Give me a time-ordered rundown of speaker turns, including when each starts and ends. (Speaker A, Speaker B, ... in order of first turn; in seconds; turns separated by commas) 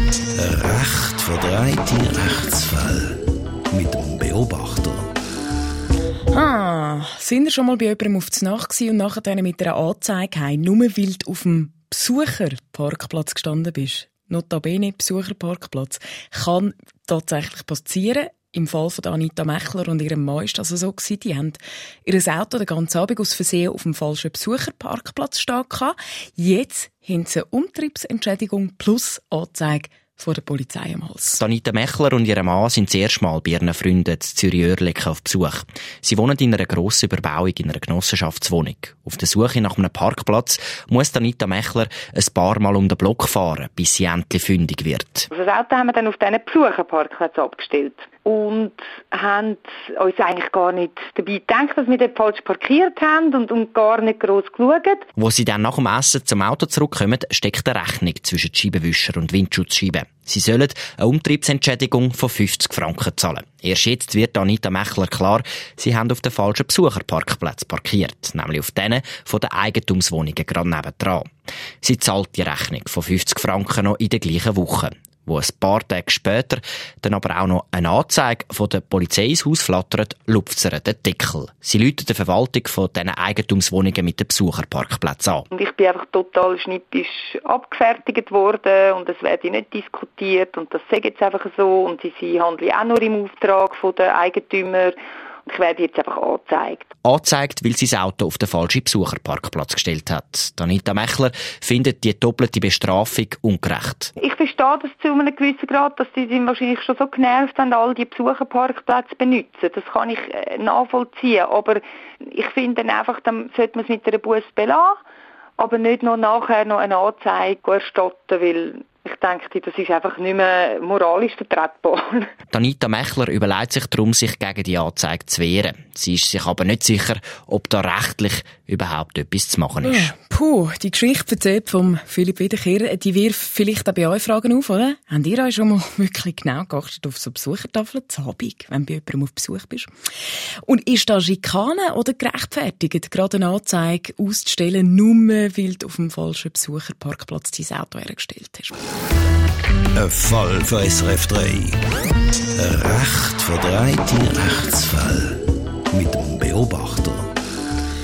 Speaker A: 0.3-3.2, Speaker A: 3.7-5.1, Speaker B: 6.3-31.4, Speaker C: 31.4-45.3, Speaker D: 45.3-55.0, Speaker C: 55.2-71.3, Speaker C: 71.8-85.5, Speaker D: 85.5-96.9, Speaker C: 97.0-104.1, Speaker D: 104.2-115.0, Speaker D: 115.6-122.3, Speaker C: 122.5-130.1, Speaker B: 129.8-139.9, Speaker B: 140.6-148.7, Speaker A: 149.9-151.8, Speaker A: 152.6-155.4, Speaker A: 155.9-157.3